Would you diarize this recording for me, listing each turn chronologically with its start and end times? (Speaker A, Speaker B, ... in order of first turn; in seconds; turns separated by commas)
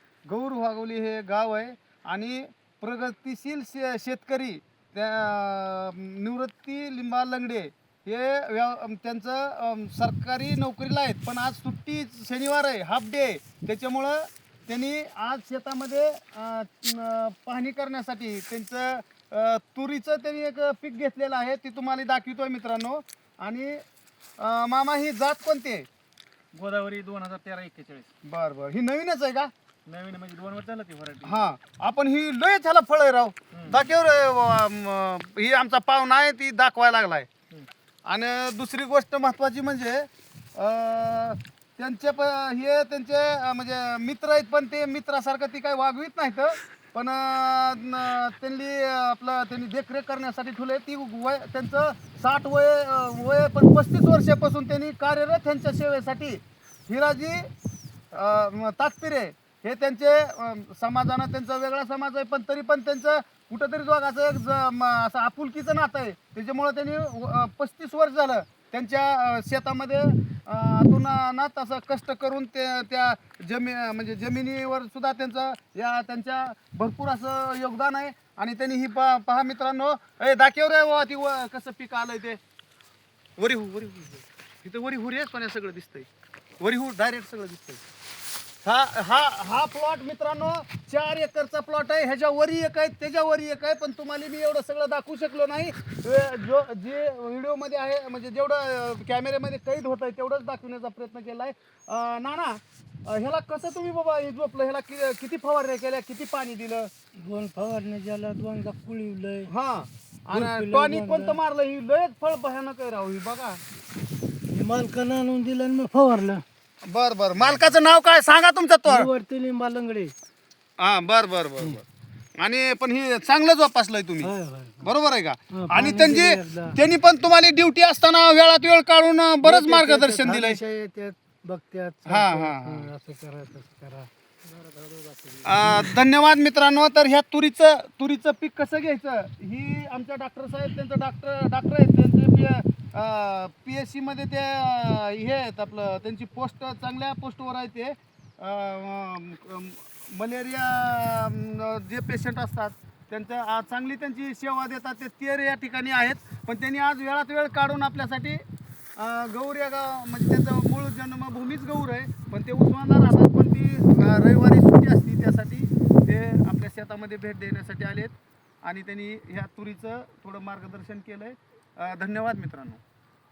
Speaker A: 0.3-23.8, Speaker A: 24.4-25.9, Speaker B: 26.5-28.1, Speaker A: 28.2-29.5, Speaker B: 29.9-31.4, Speaker A: 31.2-37.3, Speaker B: 33.5-33.9, Speaker A: 38.1-57.5, Speaker A: 58.1-82.4, Speaker A: 83.4-86.1, Speaker A: 86.6-87.8, Speaker A: 88.6-106.9, Speaker C: 107.2-109.5, Speaker A: 109.5-113.6, Speaker C: 110.3-111.4, Speaker C: 114.5-116.4, Speaker A: 116.9-119.1, Speaker C: 118.8-120.1, Speaker A: 120.8-121.9, Speaker A: 122.4-130.6, Speaker C: 124.2-124.9, Speaker C: 125.5-126.8, Speaker C: 129.4-135.9, Speaker A: 132.1-132.9, Speaker A: 135.4-158.4, Speaker A: 159.0-168.1, Speaker A: 168.7-172.8